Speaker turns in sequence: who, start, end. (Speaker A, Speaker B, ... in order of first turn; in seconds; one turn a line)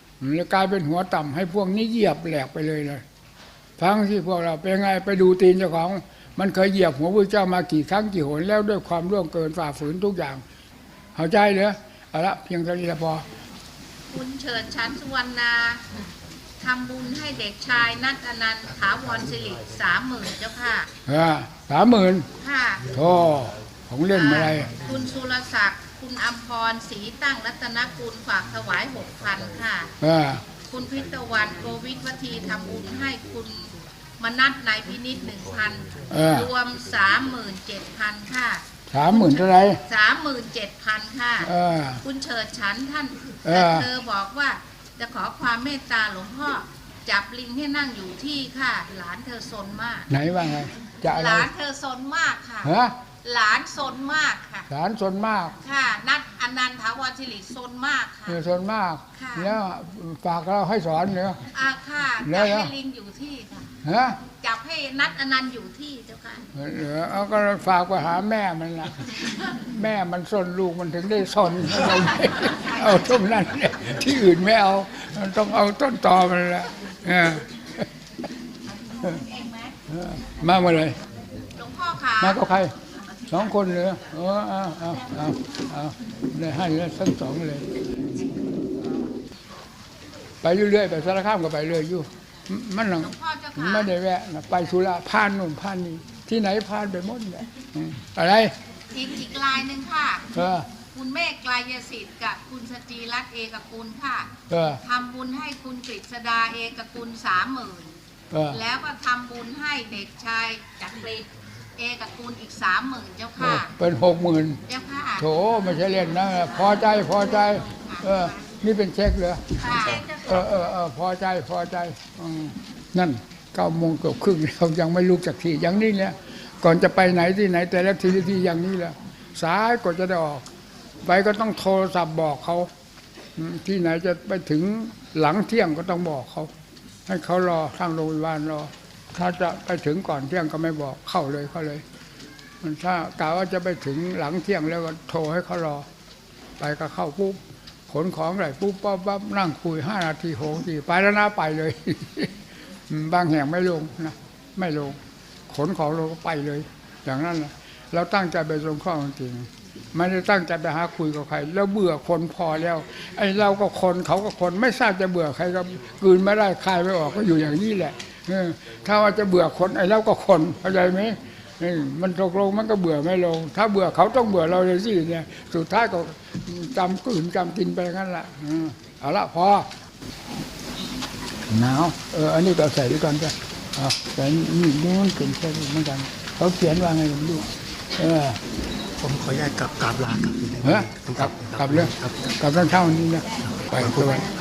Speaker A: 0.2-3.0
Speaker A: 3.8-10.4
Speaker A: 11.2-13.2
Speaker B: 14.1-15.8
Speaker B: 16.6-20.9
Speaker A: 21.1-22.3
Speaker B: 22.4-22.9
Speaker A: 22.9-24.7
Speaker B: 24.1-29.9
Speaker A: 30.0-30.4
Speaker B: 30.7-50.1
Speaker A: 36.1-36.5
Speaker A: 38.9-39.8
Speaker A: 41.4-42.0
Speaker A: 43.4-43.9
Speaker A: 50.1-51.5
Speaker B: 51.1-54.7
Speaker A: 52.6-52.9
Speaker A: 54.7-55.6
Speaker B: 55.6-58.4
Speaker A: 58.3-61.5
Speaker B: 59.1-59.5
Speaker B: 61.5-63.7
Speaker A: 62.2-62.7
Speaker A: 63.8-64.2
Speaker B: 64.3-66.5
Speaker A: 66.5-77.9
Speaker B: 78.9-79.7
Speaker A: 79.9-80.9
Speaker B: 81.5-82.5
Speaker A: 82.2-82.7
Speaker A: 83.3-87.7
Speaker A: 90.4-98.5
Speaker B: 93.0-93.9
Speaker B: 98.9-100.3
Speaker A: 100.3-100.7
Speaker B: 100.9-107.9
Speaker A: 104.5-104.8
Speaker A: 108.3-108.6
Speaker B: 108.5-113.7
Speaker A: 113.4-114.6
Speaker B: 114.7-115.2
Speaker A: 115.2-130.4
Speaker B: 117.7-118.3
Speaker B: 119.5-120.4
Speaker A: 131.0-132.7
Speaker A: 133.3-136.5
Speaker A: 137.1-141.8
Speaker A: 142.6-145.8
Speaker A: 146.6-147.4
Speaker A: 147.9-152.3
Speaker A: 152.9-155.0
Speaker A: 155.5-179.7
Speaker A: 181.5-188.4
Speaker C: 189.0-192.1
Speaker A: 190.6-194.3